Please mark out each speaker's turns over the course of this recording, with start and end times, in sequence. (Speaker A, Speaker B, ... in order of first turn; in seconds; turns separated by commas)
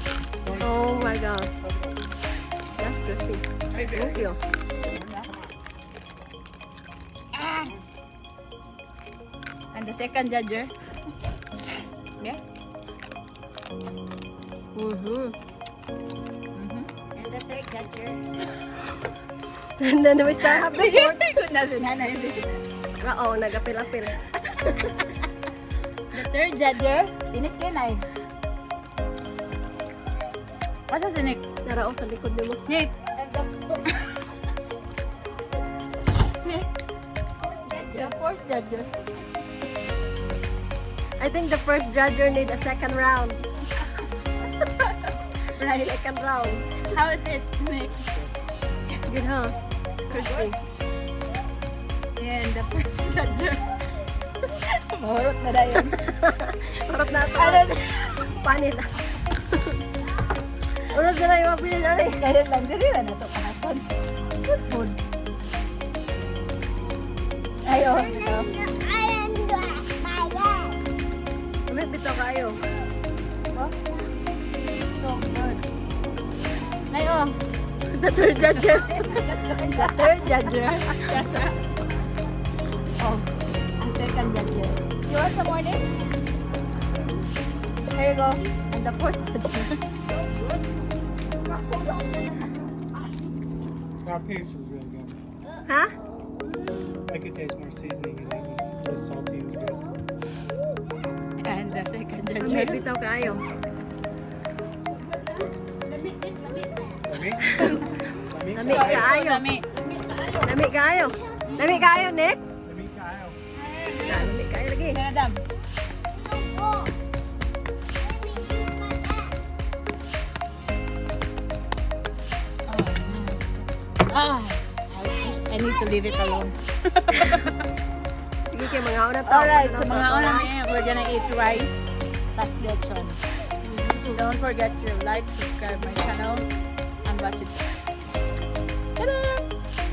Speaker A: 0.4-2.0, Speaker B: 0.6-1.5, Speaker B: 2.8-4.4, Speaker A: 3.7-5.5, Speaker C: 5.0-5.3, Speaker C: 7.3-7.7, Speaker C: 9.7-10.7, Speaker B: 14.8-15.3, Speaker C: 16.6-17.1, Speaker B: 17.2-18.1, Speaker B: 19.8-21.2, Speaker C: 20.4-22.6, Speaker B: 23.0-24.9, Speaker C: 26.1-28.1, Speaker C: 30.9-31.4, Speaker B: 31.6-32.6, Speaker C: 32.6-34.0, Speaker C: 37.7-38.9, Speaker B: 37.8-38.1, Speaker B: 41.2-43.4, Speaker C: 45.6-45.9, Speaker B: 45.8-46.6, Speaker C: 46.9-48.1, Speaker B: 49.1-49.5, Speaker B: 50.1-50.6, Speaker C: 52.2-53.7, Speaker C: 54.7-56.0, Speaker B: 55.9-58.9, Speaker C: 57.3-58.3, Speaker B: 60.9-62.2, Speaker C: 62.1-65.0, Speaker C: 67.6-68.6, Speaker B: 68.6-69.3, Speaker C: 69.3-70.7, Speaker B: 71.7-72.6, Speaker C: 74.8-75.6, Speaker C: 76.9-77.4, Speaker C: 78.0-81.6, Speaker B: 78.0-79.1, Speaker B: 79.8-80.5, Speaker C: 83.0-85.8, Speaker C: 87.9-89.8, Speaker A: 94.0-95.2, Speaker B: 95.7-95.9, Speaker A: 97.1-99.8, Speaker C: 101.4-102.8, Speaker B: 102.4-103.4, Speaker A: 107.1-109.2, Speaker B: 108.5-109.4, Speaker C: 108.6-110.5, Speaker B: 110.4-112.4, Speaker C: 111.5-111.9, Speaker A: 112.6-113.4, Speaker C: 113.6-114.4, Speaker B: 114.0-115.0, Speaker C: 114.9-115.4, Speaker C: 122.7-127.6, Speaker B: 128.5-130.5, Speaker C: 129.3-131.8, Speaker C: 132.4-133.2, Speaker B: 133.6-134.2, Speaker C: 134.1-136.5, Speaker C: 137.1-137.7, Speaker B: 139.0-139.4